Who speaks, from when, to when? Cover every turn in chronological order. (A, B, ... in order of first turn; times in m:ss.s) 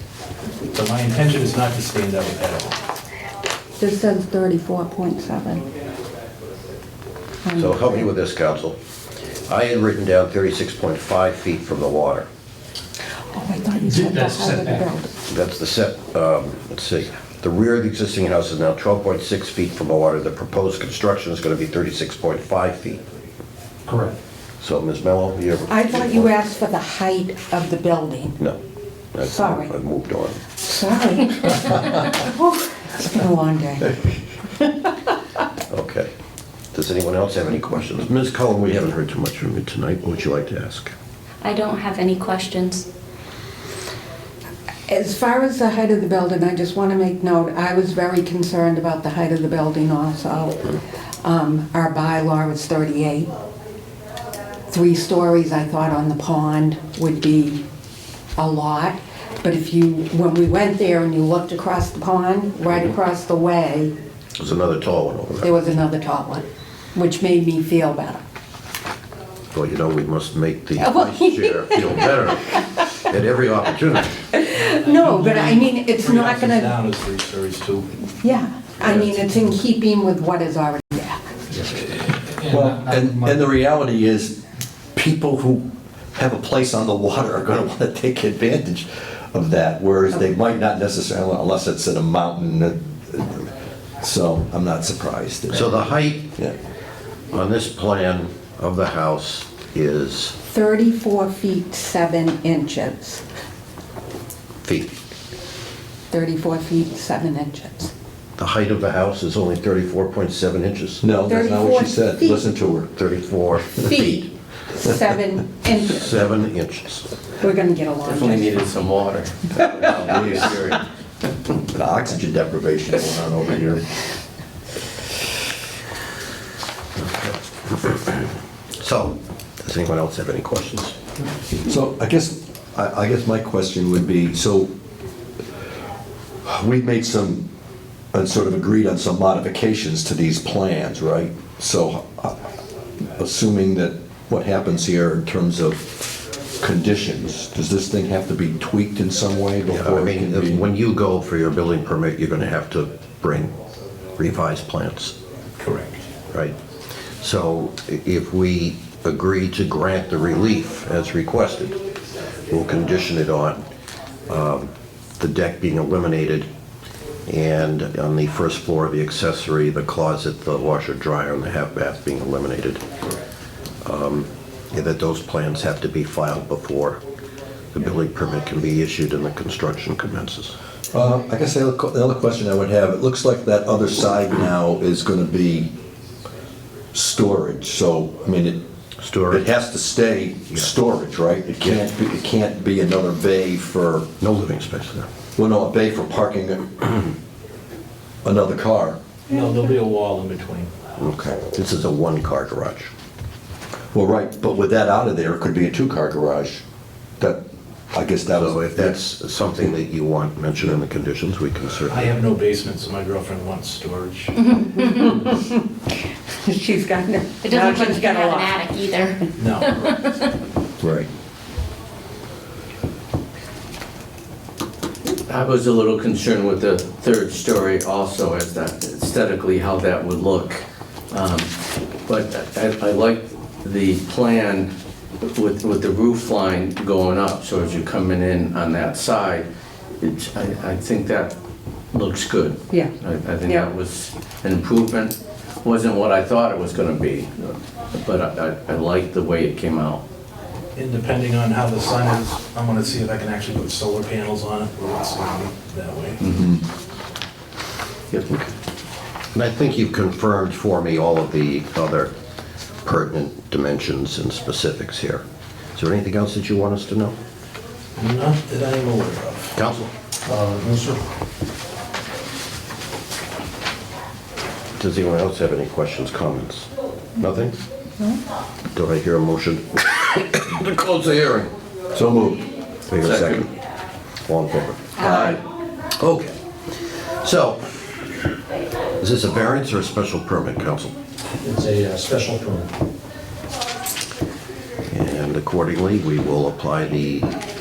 0:00.8-0:02.7 A
0:03.8-0:05.7 B
0:07.4-0:08.1 B
0:07.5-0:08.8 C
0:09.5-0:12.2 C
0:13.3-0:15.1 B
0:13.8-0:14.9 D
0:15.2-0:23.0 C
0:23.9-0:24.1 D
0:24.6-0:26.3 C
0:25.7-0:28.4 B
0:29.1-0:30.4 C
0:29.2-0:29.7 B
0:30.6-0:34.7 B
0:35.7-0:36.1 C
0:36.7-0:40.9 C
0:41.4-0:42.8 E
0:44.9-0:53.3 B
0:54.7-0:57.6 B
0:58.4-1:03.9 B
1:04.4-1:05.5 C
1:05.4-1:08.2 B
1:09.5-1:14.2 C
1:10.8-1:12.6 B
1:14.3-1:16.7 B
1:15.0-1:17.9 A
1:18.2-1:21.2 B
1:18.8-1:19.2 F
1:21.5-1:23.4 D
1:22.5-1:24.4 G
1:24.9-1:25.6 G
1:26.1-1:36.5 G
1:35.5-1:36.3 C
1:37.3-1:40.4 C
1:40.5-1:43.2 B
1:44.6-1:45.0 C
1:46.1-1:47.9 B
1:48.4-1:51.0 C
1:51.0-1:52.9 G
1:51.3-1:52.4 B
1:52.9-1:54.2 C
1:53.8-1:56.2 B
1:55.9-1:57.1 C
1:57.4-1:58.6 B
1:58.0-2:00.8 F
1:59.9-2:00.5 C
2:01.7-2:03.8 G
2:07.0-2:08.2 C
2:08.8-2:11.0 C
2:11.6-2:14.7 G
2:16.4-2:17.5 G
2:18.1-2:22.4 G
2:23.0-2:30.6 G
2:29.7-2:33.5 C
2:34.2-2:35.1 C
2:35.6-2:36.0 A
2:37.2-2:41.8 C
2:42.5-2:43.6 C
2:44.3-2:46.5 C
2:47.3-2:52.8 C
2:53.8-2:57.0 C
2:57.7-3:00.5 C
3:00.9-3:05.7 G
3:06.9-3:08.6 G
3:09.0-3:09.4 C
3:09.3-3:14.1 G
3:14.2-3:15.1 C
3:15.4-3:17.1 G
3:18.2-3:19.0 G
3:19.3-3:20.7 A
3:21.0-3:22.9 C
3:23.9-3:26.6 G
3:27.2-3:29.0 G
3:28.3-3:32.2 C
3:31.9-3:34.3 A
3:34.4-3:35.0 E
3:34.7-3:35.6 B
3:36.4-3:38.6 B
3:37.4-3:40.2 E
3:40.8-3:41.1 G
3:45.2-3:51.5 F
3:52.1-3:54.7 F
3:55.2-3:59.4 F
4:00.0-4:01.3 F
4:01.9-4:10.0 F
4:10.8-4:16.2 A
4:16.3-4:16.6 G
4:18.1-4:18.5 F
4:19.3-4:22.1 C
4:22.8-4:25.2 C
4:25.8-4:27.2 C
4:28.0-4:29.5 A
4:29.5-4:29.9 C
4:30.3-4:31.0 D
4:34.8-4:37.6 C
4:38.7-4:41.5 C
4:41.9-4:42.4 G
4:42.9-4:43.5 C
4:43.0-4:43.4 G
4:44.2-4:45.4 C
4:45.0-4:45.3 G
4:46.0-4:47.8 C
4:49.0-4:50.9 C
4:51.4-4:52.7 D
4:54.9-4:57.4 C